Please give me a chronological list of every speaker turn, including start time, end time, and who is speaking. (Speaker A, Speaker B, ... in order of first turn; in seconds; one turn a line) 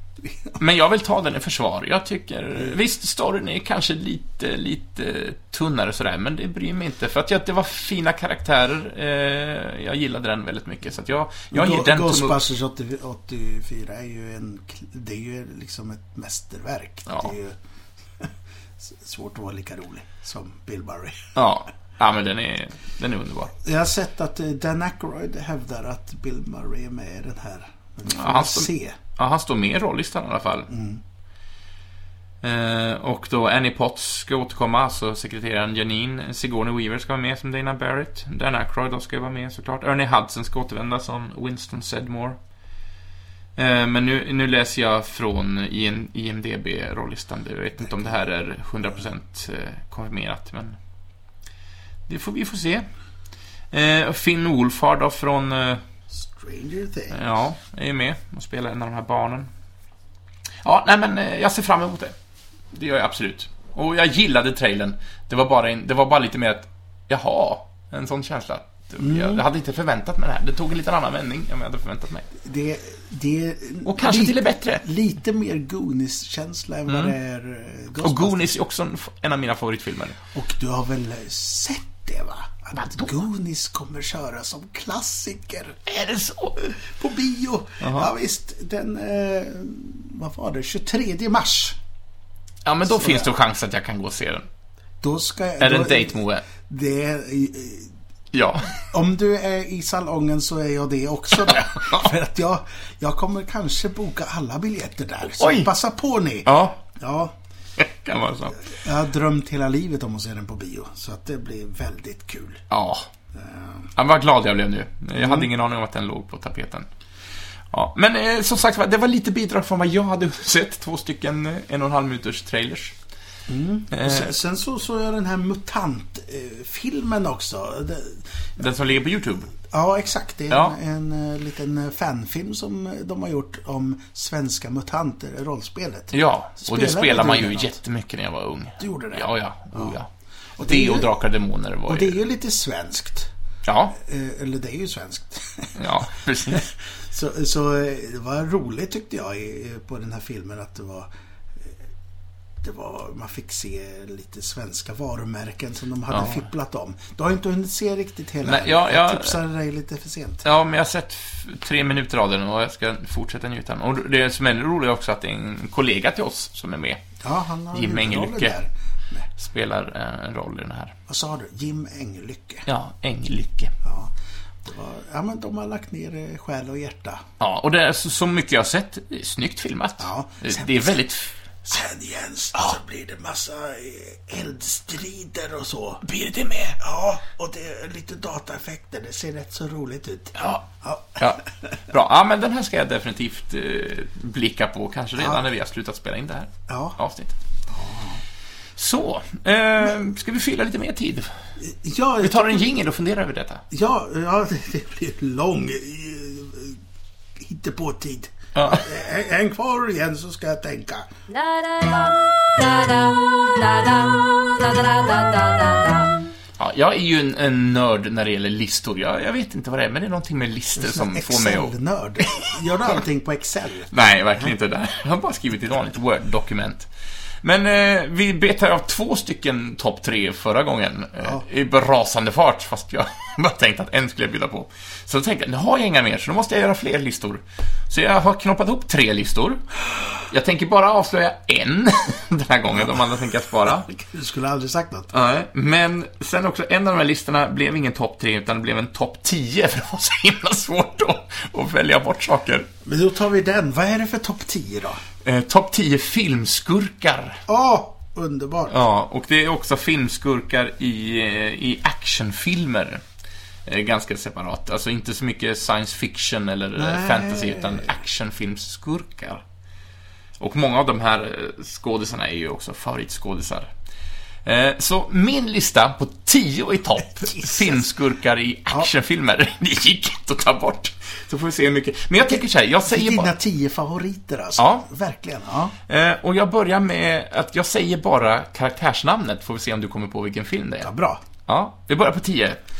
Speaker A: 0.2-0.6
Speaker B: 0.6-12.4
Speaker A: 11.5-17.6
Speaker A: 18.2-21.3
Speaker B: 21.3-23.5
Speaker A: 23.6-29.0
Speaker B: 28.1-30.7
Speaker A: 30.7-31.0
Speaker B: 32.4-42.4
Speaker B: 43.5-50.8
Speaker B: 52.1-52.9
Speaker B: 53.7-55.8
Speaker A: 56.1-57.2
Speaker B: 57.1-59.5
Speaker B: 60.6-62.1
Speaker B: 62.7-72.3
Speaker A: 69.0-69.4
Speaker A: 72.4-78.5
Speaker B: 73.8-74.8
Speaker B: 76.9-77.1
Speaker B: 78.0-80.2
Speaker A: 80.3-85.8
Speaker B: 82.7-83.1
Speaker B: 85.9-86.6
Speaker A: 86.6-91.8
Speaker B: 87.8-88.1
Speaker B: 92.6-94.5
Speaker A: 92.9-93.3
Speaker A: 95.0-97.9
Speaker B: 95.6-96.4
Speaker B: 98.3-98.8
Speaker A: 98.7-107.3
Speaker B: 101.5-102.1
Speaker B: 105.4-105.7
Speaker B: 106.5-106.8
Speaker B: 107.8-108.7
Speaker A: 108.6-112.6
Speaker B: 112.7-113.1
Speaker A: 113.3-113.9
Speaker B: 113.9-116.9
Speaker A: 115.2-115.5
Speaker B: 117.7-122.9
Speaker A: 123.5-128.6
Speaker B: 123.9-124.3
Speaker B: 128.6-129.5
Speaker A: 129.6-137.8
Speaker B: 130.5-130.8
Speaker B: 136.1-142.2
Speaker A: 138.8-139.9
Speaker A: 140.6-141.1
Speaker A: 141.9-143.3
Speaker B: 143.6-143.9
Speaker A: 143.9-145.9
Speaker B: 145.7-146.7
Speaker A: 146.5-151.8
Speaker A: 152.6-160.4
Speaker B: 156.1-156.4
Speaker B: 158.4-159.4
Speaker B: 160.4-167.0
Speaker A: 167.2-169.3
Speaker B: 167.7-168.6
Speaker B: 169.3-170.9
Speaker A: 171.1-172.7
Speaker B: 172.7-173.7
Speaker A: 173.8-174.1
Speaker A: 174.6-177.2
Speaker B: 177.4-181.3
Speaker A: 180.0-181.0
Speaker A: 181.6-186.0
Speaker B: 186.0-186.8
Speaker A: 186.8-191.7
Speaker B: 190.4-190.6
Speaker B: 191.2-197.3
Speaker A: 195.2-195.4
Speaker A: 196.7-197.0
Speaker A: 197.7-198.2
Speaker B: 198.8-201.3
Speaker A: 201.6-202.7
Speaker B: 202.2-203.6
Speaker A: 203.7-206.8
Speaker A: 207.4-211.1
Speaker B: 208.5-208.9
Speaker C: 211.3-216.2
Speaker B: 216.6-221.7
Speaker A: 220.8-224.5
Speaker B: 222.3-222.9
Speaker B: 223.9-226.9
Speaker B: 227.4-239.7
Speaker B: 240.2-243.9
Speaker A: 243.9-245.1
Speaker B: 245.1-252.7
Speaker A: 252.8-255.0
Speaker B: 255.2-257.4
Speaker A: 257.5-258.8
Speaker B: 258.7-263.0
Speaker B: 263.6-269.4
Speaker A: 266.8-267.9
Speaker B: 270.4-273.7
Speaker B: 274.4-283.3
Speaker A: 277.3-277.8
Speaker A: 282.3-285.7
Speaker B: 284.6-284.9
Speaker B: 285.9-290.9
Speaker A: 290.8-291.2
Speaker B: 291.5-292.6